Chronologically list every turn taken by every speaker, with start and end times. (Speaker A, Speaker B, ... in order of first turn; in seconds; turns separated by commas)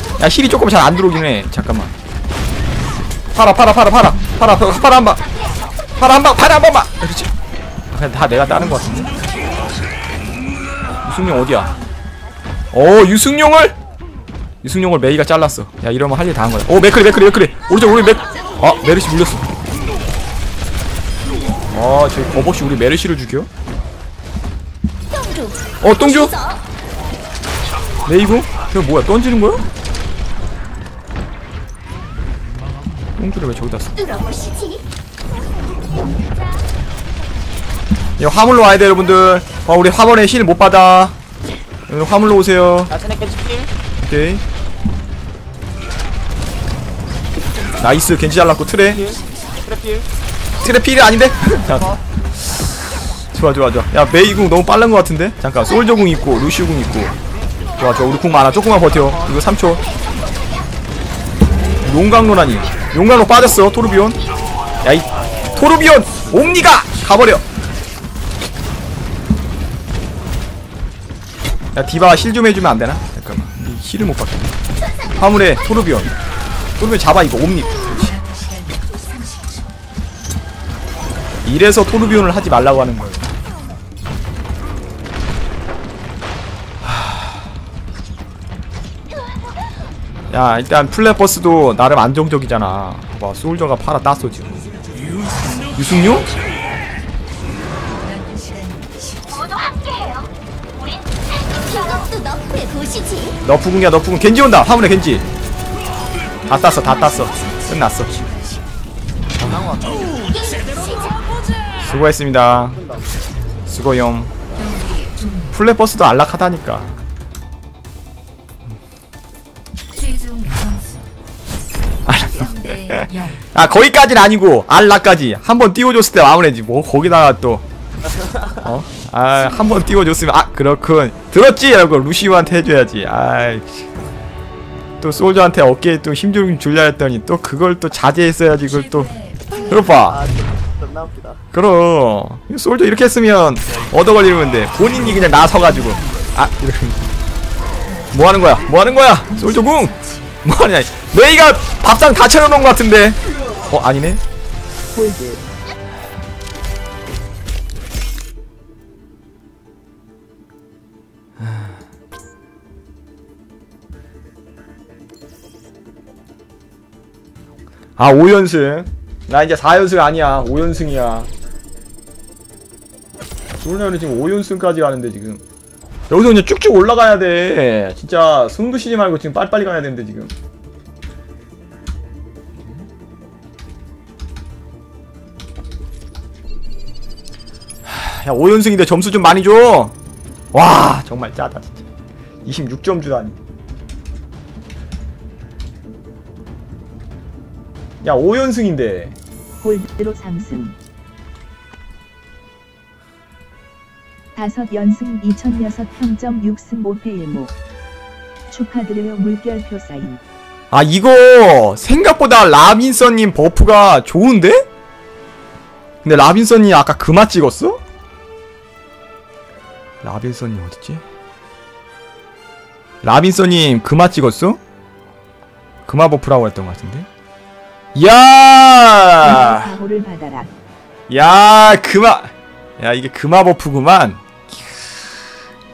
Speaker A: 0.2-1.9, Speaker A: 3.3-5.3, Speaker A: 6.0-7.3, Speaker A: 7.9-9.1, Speaker A: 11.0-11.8, Speaker A: 12.7-13.8, Speaker A: 14.6-19.5, Speaker A: 21.7-23.5, Speaker B: 25.1-25.7, Speaker A: 25.8-26.4, Speaker A: 28.1-29.6, Speaker A: 33.2-34.1, Speaker B: 34.1-34.8, Speaker A: 38.2-41.1, Speaker A: 41.9-42.9, Speaker C: 42.9-43.7, Speaker A: 44.0-44.4, Speaker A: 47.8-49.2, Speaker C: 48.8-50.1, Speaker A: 50.6-51.9, Speaker C: 51.6-52.0, Speaker A: 53.3-57.1, Speaker A: 57.8-59.8, Speaker C: 59.0-59.4, Speaker A: 61.8-64.2, Speaker A: 64.8-67.4, Speaker A: 71.7-74.5, Speaker A: 75.2-76.1, Speaker A: 76.8-78.1, Speaker D: 78.1-79.6, Speaker A: 81.4-83.3, Speaker A: 86.8-87.4, Speaker A: 90.3-94.6, Speaker A: 95.7-96.3, Speaker D: 98.0-99.7, Speaker B: 99.8-100.3, Speaker B: 101.6-103.4, Speaker A: 103.4-105.3, Speaker A: 106.5-108.3, Speaker D: 107.0-108.6, Speaker C: 109.4-110.4, Speaker A: 109.4-109.8, Speaker B: 110.4-111.1, Speaker A: 111.8-112.8, Speaker C: 112.4-113.1, Speaker A: 113.7-114.3, Speaker D: 114.6-115.5, Speaker A: 115.5-116.9, Speaker D: 119.9-121.1, Speaker A: 122.0-127.6, Speaker D: 122.4-123.4, Speaker A: 128.6-133.9, Speaker A: 135.0-139.1, Speaker D: 138.8-139.7, Speaker A: 139.7-140.2, Speaker C: 140.0-141.4, Speaker A: 141.5-147.1, Speaker A: 148.1-154.2, Speaker D: 149.4-150.1, Speaker E: 154.9-155.4, Speaker A: 168.0-171.3, Speaker A: 173.6-175.4, Speaker A: 176.1-180.3, Speaker A: 187.8-189.9, Speaker A: 190.5-191.8, Speaker A: 192.4-193.4, Speaker A: 198.0-199.2, Speaker E: 199.6-200.8, Speaker E: 204.3-207.5, Speaker E: 208.5-210.2, Speaker A: 210.7-214.6, Speaker A: 216.0-217.8, Speaker A: 220.0-221.0, Speaker A: 223.0-224.6, Speaker A: 225.8-227.1, Speaker A: 227.9-229.8, Speaker E: 229.2-230.5, Speaker A: 231.1-234.6